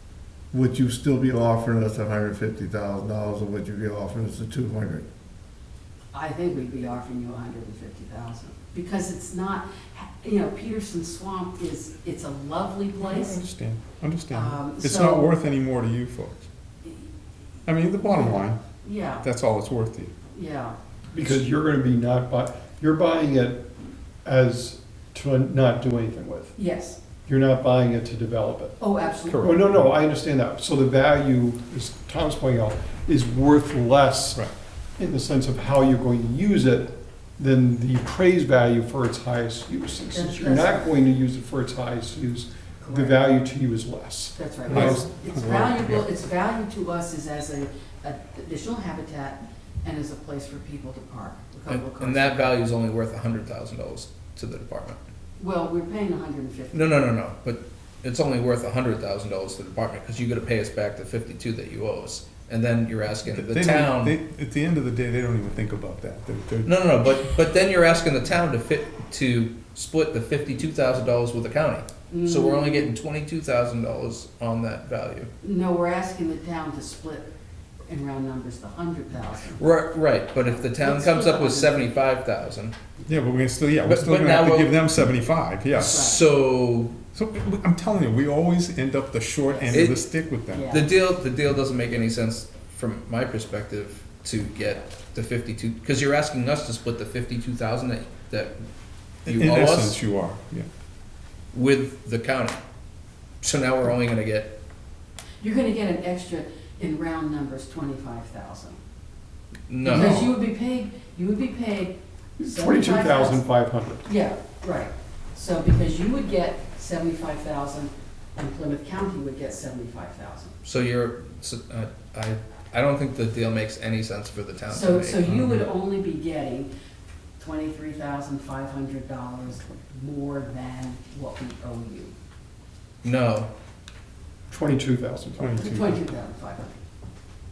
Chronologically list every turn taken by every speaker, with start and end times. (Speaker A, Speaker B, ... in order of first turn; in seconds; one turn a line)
Speaker A: 0.5-5.1
Speaker B: 6.1-13.4
Speaker C: 13.0-16.5
Speaker B: 14.3-15.3
Speaker C: 17.6-18.6
Speaker B: 18.1-19.2
Speaker C: 19.2-20.1
Speaker B: 20.3-20.7
Speaker D: 21.1-23.6
Speaker D: 24.2-26.5
Speaker B: 26.6-27.0
Speaker D: 27.3-28.7
Speaker B: 28.8-29.6
Speaker C: 29.3-29.9
Speaker D: 29.4-45.0
Speaker B: 40.1-40.9
Speaker B: 42.8-43.2
Speaker B: 44.4-52.5
Speaker C: 44.7-46.0
Speaker E: 51.7-55.0
Speaker B: 55.4-57.1
Speaker E: 56.7-64.2
Speaker C: 63.3-66.7
Speaker E: 66.6-75.3
Speaker B: 72.1-72.9
Speaker B: 75.4-77.3
Speaker B: 77.9-79.6
Speaker E: 79.6-82.7
Speaker B: 80.4-81.9
Speaker C: 83.1-86.1
Speaker E: 83.8-84.8
Speaker B: 85.7-86.2
Speaker E: 85.7-87.0
Speaker C: 87.1-90.8
Speaker B: 89.5-89.9
Speaker E: 89.7-90.0
Speaker B: 90.5-90.9
Speaker E: 90.7-98.6
Speaker E: 99.2-100.0
Speaker C: 99.2-100.7
Speaker E: 101.5-102.6
Speaker E: 103.4-104.5
Speaker B: 105.4-108.8
Speaker E: 109.7-110.4
Speaker B: 109.8-113.4
Speaker D: 112.4-114.0
Speaker B: 114.0-120.5
Speaker E: 120.6-125.3
Speaker B: 124.7-126.7
Speaker C: 125.3-125.6
Speaker B: 127.4-132.1
Speaker E: 133.0-133.5
Speaker D: 134.5-135.6
Speaker C: 135.4-136.0
Speaker B: 135.6-136.8